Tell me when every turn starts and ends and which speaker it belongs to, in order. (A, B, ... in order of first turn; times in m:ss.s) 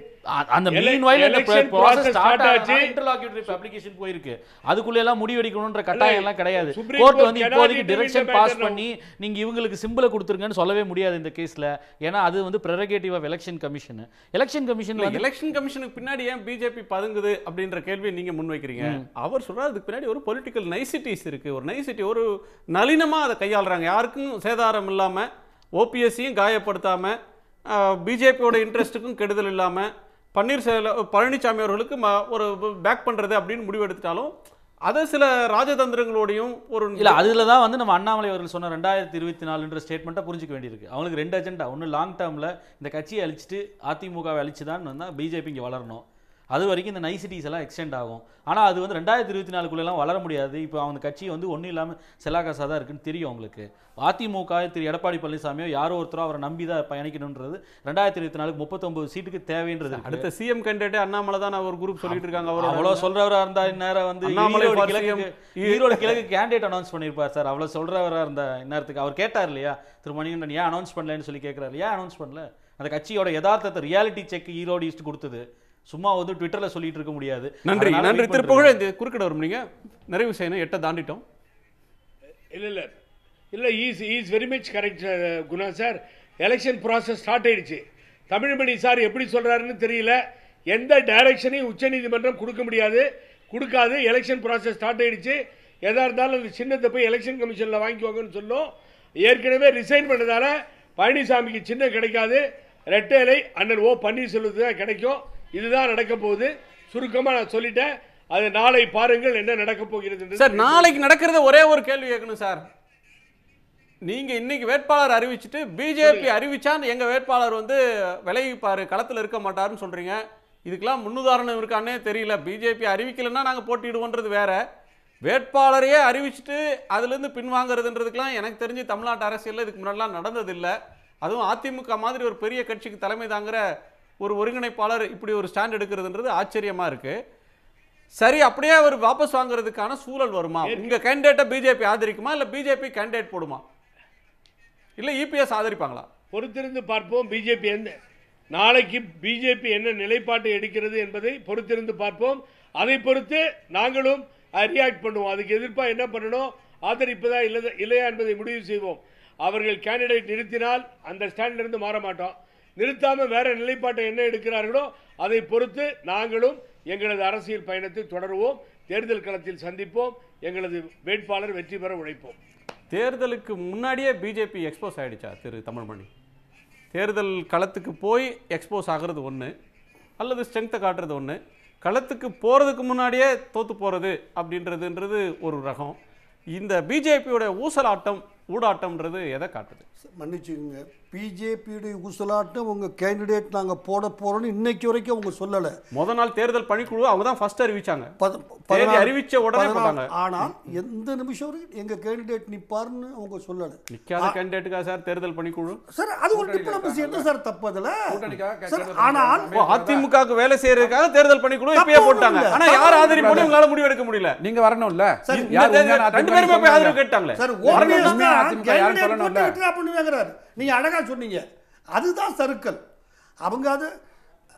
0:00.3-0:15.2 A
0:00.7-0:02.9 B
0:05.9-0:08.8 B
0:15.0-0:25.2 C
0:25.8-0:27.2 C
0:27.7-0:34.3 C
0:34.9-0:37.4 C
0:37.0-1:00.2 A
0:59.9-1:03.1 C
1:02.0-1:18.7 A
1:04.2-1:06.2 C
1:17.7-1:21.2 C
1:22.5-1:23.0 B
1:23.5-1:30.2 B
1:30.7-1:38.7 B
1:39.2-1:51.0 B
1:50.4-1:52.6 C
1:54.1-2:04.6 C
1:56.0-1:56.3 B
2:05.2-2:13.6 C
2:14.2-2:17.1 C
2:18.2-2:23.6 C
2:20.7-2:20.9 B
2:25.0-2:26.0 C
2:26.3-2:27.9 B
2:28.5-2:52.4 B
2:52.9-2:56.1 C
2:56.9-2:59.5 C
3:00.2-3:06.0 C
3:06.5-3:09.8 C
3:10.2-3:15.7 D
3:15.9-3:18.1 C
3:18.2-3:24.4 D
3:18.7-3:20.5 C
3:23.9-3:25.8 C
3:25.9-3:29.5 D
3:26.3-3:27.3 E
3:28.1-3:30.1 E
3:29.5-3:34.4 C
3:31.7-3:33.6 D
3:32.6-3:33.6 E
3:34.4-3:37.0 E
3:35.3-3:38.2 C
3:37.4-3:41.4 D
3:37.7-3:39.6 E
3:41.9-3:42.8 D
3:43.4-3:43.9 D